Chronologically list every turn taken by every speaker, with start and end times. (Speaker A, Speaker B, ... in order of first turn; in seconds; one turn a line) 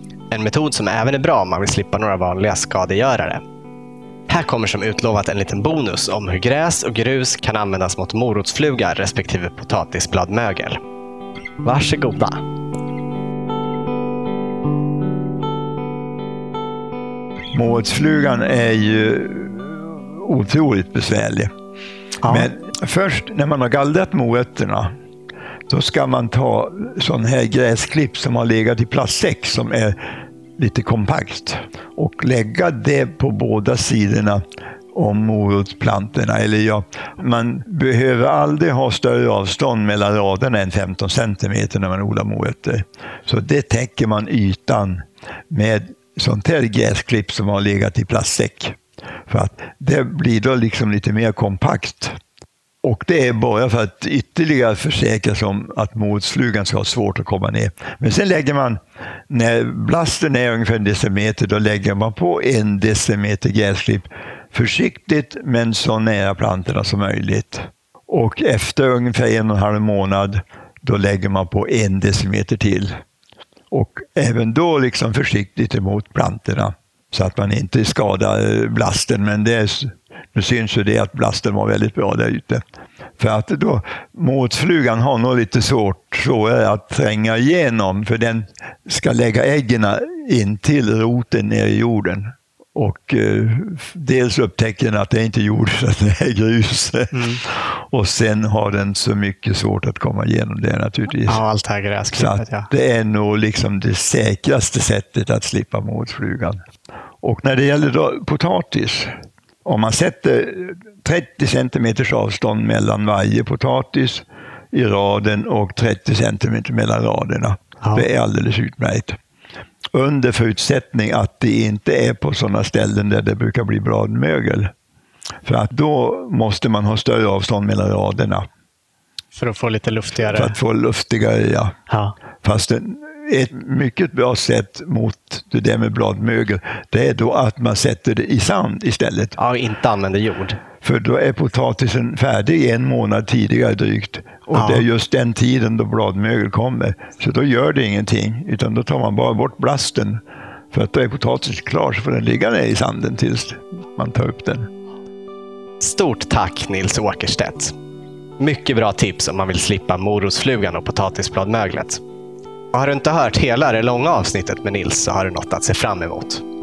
Speaker A: 0.3-3.4
Speaker A: 4.3-10.8
Speaker A: 11.6-12.4
Speaker B: 17.5-21.5
Speaker A: 22.2-22.5
Speaker B: 22.2-24.9
Speaker B: 25.7-29.9
Speaker B: 30.6-34.4
Speaker B: 34.9-52.1
Speaker B: 52.8-72.9
Speaker B: 73.7-82.6
Speaker B: 83.2-101.4
Speaker A: 97.1-97.4
Speaker A: 101.2-102.7
Speaker B: 102.1-106.6
Speaker B: 107.2-109.1
Speaker B: 109.6-119.2
Speaker A: 117.8-118.1
Speaker B: 119.9-124.7
Speaker B: 125.4-128.4
Speaker A: 129.3-130.6
Speaker B: 130.2-131.8
Speaker A: 131.9-132.1
Speaker B: 132.4-139.3
Speaker A: 139.4-140.6
Speaker B: 140.8-150.2
Speaker A: 144.5-144.8
Speaker B: 150.7-154.7
Speaker A: 155.8-157.7
Speaker A: 158.4-162.0
Speaker A: 162.7-166.4